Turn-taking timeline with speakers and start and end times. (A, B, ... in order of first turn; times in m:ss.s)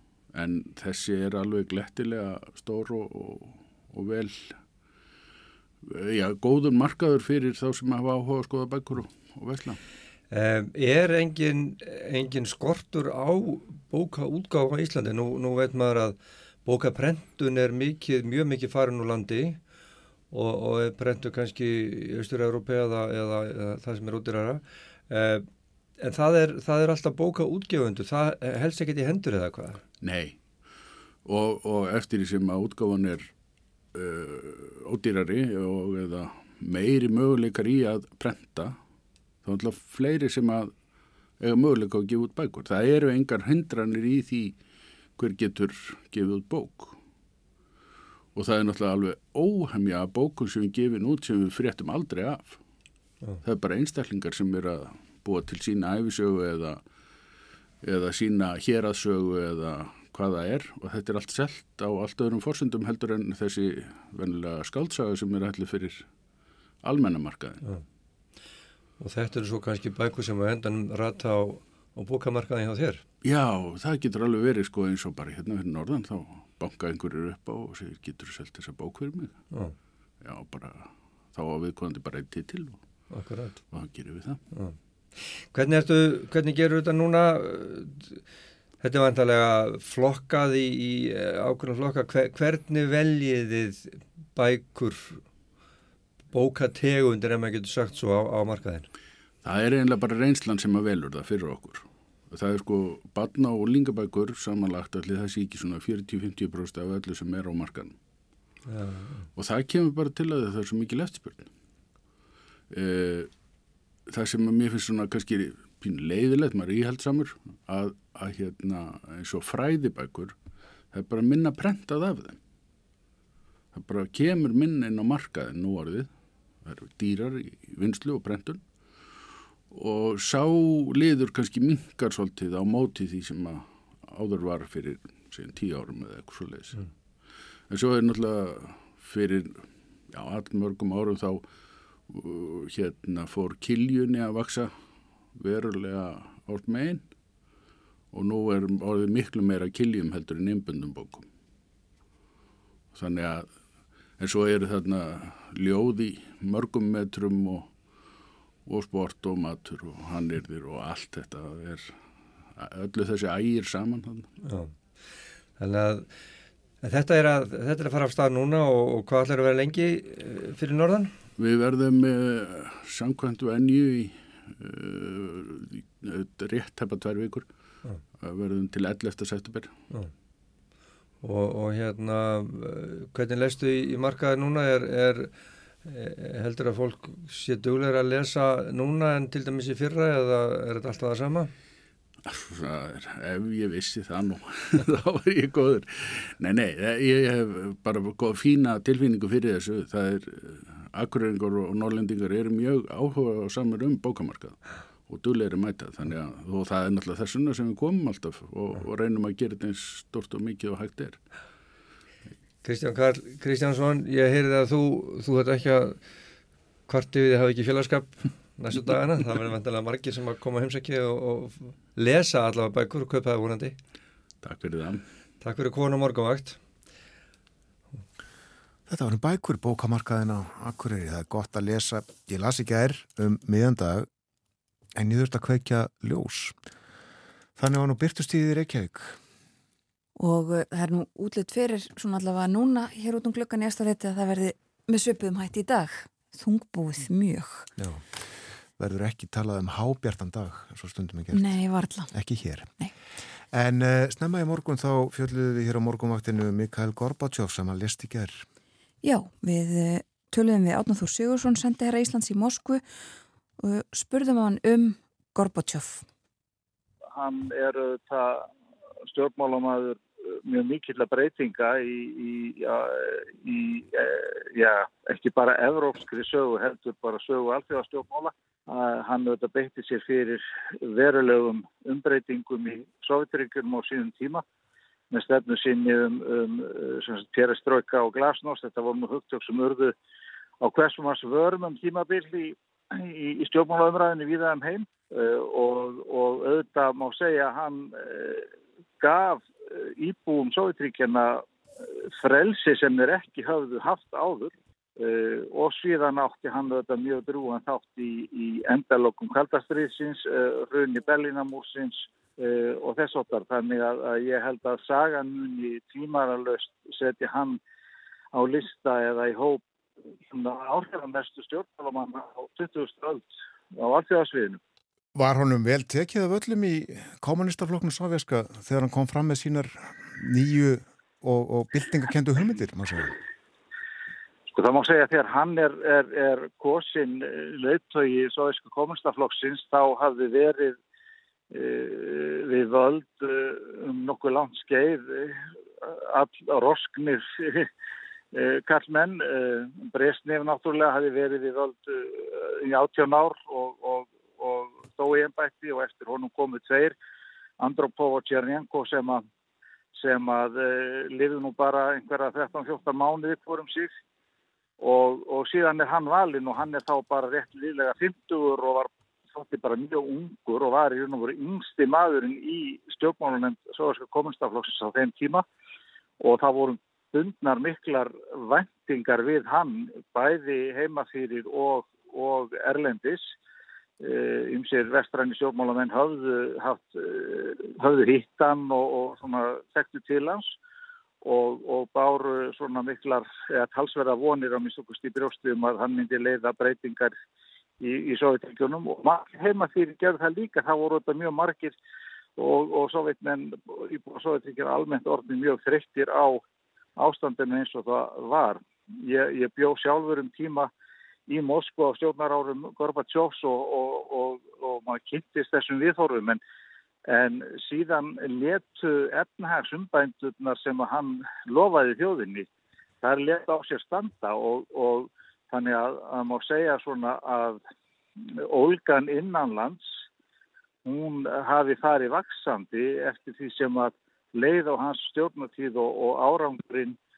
0:00.3-0:04.6 A
0:05.8-0:09.8 A
0:10.3-0:19.6 B
0:20.3-0:25.5 B
0:26.0-0:29.8 B
0:30.0-0:30.4 A
0:31.2-0:33.3 A
0:33.9-0:38.8 A
0:39.4-0:40.7 A
0:41.4-0:44.6 A
0:45.2-0:47.0 A
0:48.4-0:52.6 A
0:53.4-0:56.8 A
0:57.8-1:06.1 A
1:06.8-1:07.6 A
1:09.0-1:13.0 B
1:13.2-1:19.4 A
1:19.5-1:19.8 B
1:20.2-1:22.8 A
1:23.1-1:23.6 B
1:23.7-1:24.4 A
1:24.5-1:24.8 B
1:25.4-1:28.2 B
1:28.8-1:35.2 B
1:36.3-1:38.9 B
1:39.4-1:48.0 A
1:48.7-1:49.3 B
1:49.4-1:51.5 A
1:52.7-1:53.3 A
1:54.1-2:00.4 A
2:00.9-2:02.4 A
2:03.7-2:06.1 A
2:06.6-2:08.6 A
2:09.7-2:16.8 A
2:17.7-2:21.4 A
2:22.1-2:24.7 A
2:25.3-2:27.1 A
2:28.1-2:31.3 A
2:32.9-2:33.5 A
2:34.2-2:37.7 A
2:38.7-2:42.0 A
2:42.6-2:44.3 A
2:44.4-2:44.8 B
2:45.6-2:46.1 B
2:46.8-2:51.1 B
2:51.4-2:57.5 A
2:58.2-2:59.7 A
3:01.2-3:05.3 B
3:05.8-3:11.5 B
3:12.2-3:31.2 A
3:32.6-3:36.0 B
3:36.9-3:43.8 B
3:44.4-3:45.0 A
3:45.4-3:46.6 B
3:48.9-3:54.1 C
3:55.0-3:56.6 C
3:57.6-3:59.2 C
4:00.2-4:07.7 D
4:07.8-4:08.1 C
4:08.8-4:11.6 C
4:11.3-4:12.1 D
4:12.1-4:12.8 C
4:13.5-4:18.4 C
4:19.0-4:22.8 D
4:23.6-4:26.0 D
4:27.1-4:28.5 E
4:29.1-4:44.4 E
4:45.1-4:49.9 E
4:50.6-4:58.5 E
4:59.0-5:01.4 E
5:02.2-5:17.6 E
5:18.3-5:19.6 E
5:20.3-5:24.6 E
5:25.2-5:33.2 C
5:34.5-5:40.8 E
5:41.5-5:47.7 E
5:48.3-5:56.9 E
5:57.6-5:59.2 E
6:00.0-6:03.9 E
6:04.8-6:15.4 E
6:16.2-6:23.3 E
6:24.0-6:30.6 E
6:31.2-6:37.1 E
6:37.8-6:41.7 E
6:42.4-6:46.4 E
6:47.0-6:50.7 E
6:51.3-6:56.4 E
6:57.1-7:02.5 E
7:03.0-7:07.6 E
7:08.5-7:09.9 E
7:10.8-7:17.0 E